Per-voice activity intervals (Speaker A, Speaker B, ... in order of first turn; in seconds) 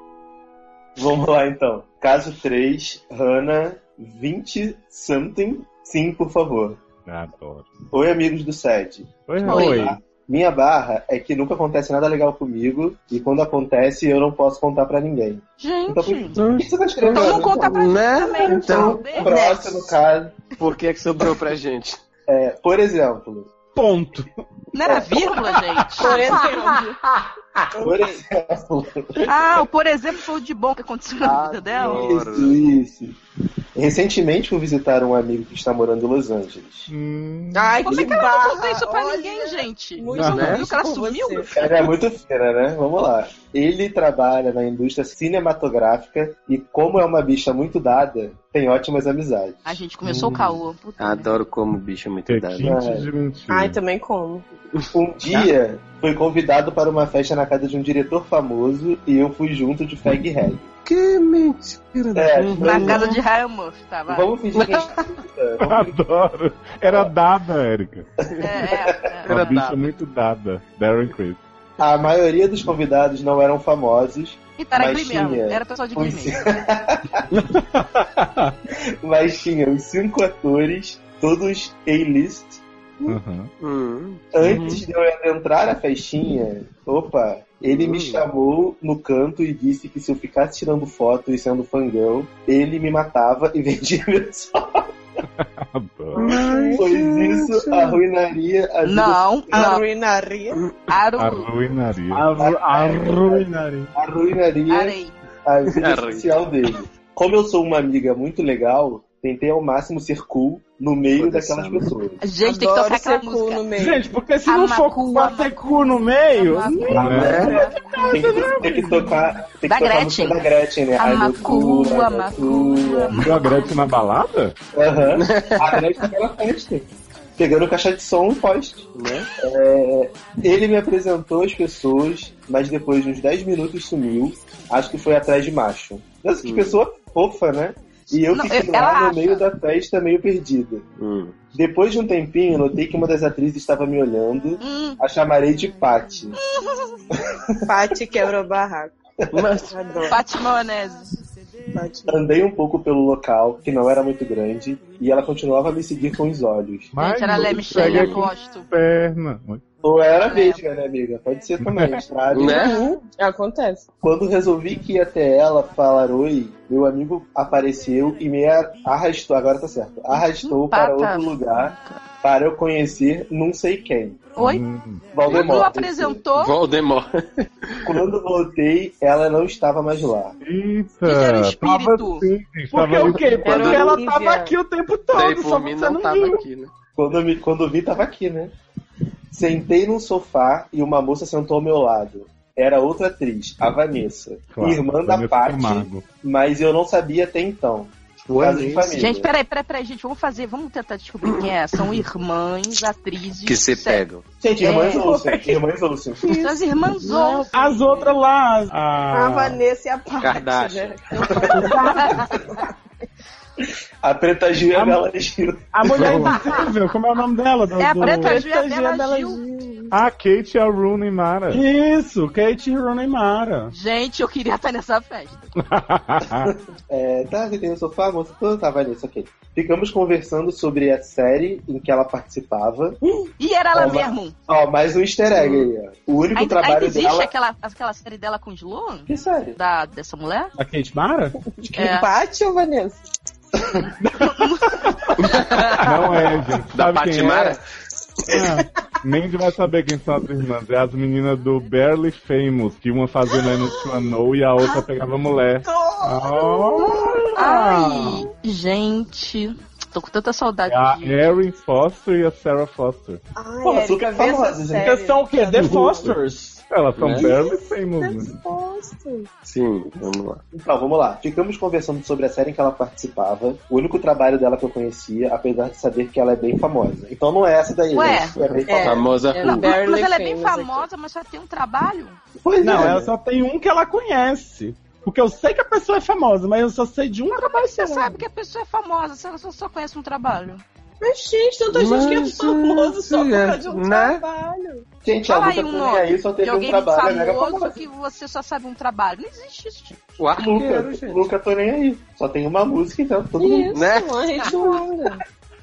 Speaker A: 1.0-6.8, 7.9-20.4, 22.3-23.5, 24.8-25.1, 27.8-29.6, 31.8-33.2, 33.7-36.9, 41.5-49.8, 52.6-53.0, 54.9-60.7, 62.1-63.1, 64.1-65.9, 66.8-67.1, 68.2-69.3, 71.8-77.2, 79.0-82.6, 84.3-94.9, 96.8-99.7, 102.4-112.2, 116.9-123.2, 124.7-126.8, 127.4-140.8, 141.5-146.3, 147.2-147.5, 149.2-149.5, 152.1-156.9, 159.8-162.8, 164.0-174.2, 175.1-176.2, 177.8-180.3, 186.9-188.5, 189.3-199.3, 204.4-206.3, 211.3-212.4, 214.0-216.5, 226.4-233.0, 233.7-237.3, 239.1-239.6, 243.6-243.9, 263.6-264.9, 270.5-279.1, 282.4-283.1, 295.0-297.8, 300.3-303.7
Speaker B: 7.0-7.7, 9.3-10.0, 36.9-37.8, 52.3-53.8, 65.6-68.1, 69.3-71.4, 83.0-83.5, 95.4-96.2, 101.2-102.2, 116.9-117.4, 123.1-124.5, 156.9-159.6, 161.6-162.0, 174.3-175.0, 180.4-183.8, 194.5-196.0, 216.0-216.3, 219.9-221.6, 225.6-226.5, 245.8-247.6, 249.0-255.7, 260.7-263.2, 266.7-268.3
Speaker C: 9.5-9.9, 15.6-16.4, 17.1-19.9, 24.7-26.5, 29.2-32.2, 37.8-41.5, 49.6-51.3, 62.6-64.3, 68.4-69.3, 74.6-76.3, 98.8-99.8, 100.9-101.5, 104.7-105.1, 112.2-113.6, 114.5-117.8, 119.6-120.4, 121.0-123.8, 138.3-139.4, 144.6-145.0, 146.4-146.9, 150.1-151.2, 157.0-158.7, 160.2-160.6, 170.1-172.0, 174.3-174.6, 175.3-176.5, 181.0-182.3, 198.9-204.0, 204.6-205.1, 206.3-208.1, 211.1-212.2, 217.8-219.4, 223.7-225.4, 233.4-234.3, 236.3-240.5, 241.8-242.1, 244.2-245.4, 257.3-261.2, 277.9-278.3, 279.4-282.2, 287.3-290.6, 295.2-300.0, 304.4-304.8
Speaker D: 9.5-10.0, 23.8-24.4, 40.1-40.6, 77.3-78.5, 84.4-84.8, 102.1-103.9, 113.8-119.2, 182.7-186.4, 207.5-209.6, 211.5-212.2, 214.7-215.0, 215.7-218.4, 221.5-223.7, 240.6-241.4, 248.3-248.6, 256.0-257.0, 264.8-266.6, 282.6-288.1
Speaker E: 16.3-19.3, 20.6-22.0, 26.1-27.6, 31.2-32.6, 40.2-40.7, 51.0-52.8, 60.8-63.2, 64.5-65.2, 69.3-69.8, 83.6-84.2, 87.7-88.2, 96.1-98.0, 105.7-106.4, 111.1-112.0, 117.1-117.5, 125.1-125.8, 128.9-129.3, 136.4-136.8, 141.0-141.4, 149.3-149.7, 157.7-158.2, 162.3-162.9, 175.2-175.7, 176.3-177.9, 183.5-183.9, 185.1-186.7, 198.2-199.0, 203.4-204.2, 210.2-211.0, 235.3-235.7, 245.2-245.9, 246.7-247.6, 267.0-267.3, 269.4-270.4, 278.3-279.7, 291.7-294.2, 300.2-301.3, 303.7-304.2
Speaker F: 26.0-27.0, 27.7-28.1, 37.5-41.7, 53.5-54.4, 96.2-96.8, 99.5-100.6, 112.4-114.0, 147.7-148.9, 149.7-150.2, 151.7-152.2, 162.5-163.9, 183.4-184.6, 204.8-205.6, 206.2-208.1, 209.1-212.7, 216.2-216.6, 218.1-220.0, 241.6-243.0, 253.3-253.8, 255.6-257.1, 263.4-266.1, 267.1-269.3, 278.7-280.9, 291.0-294.9, 303.4-305.2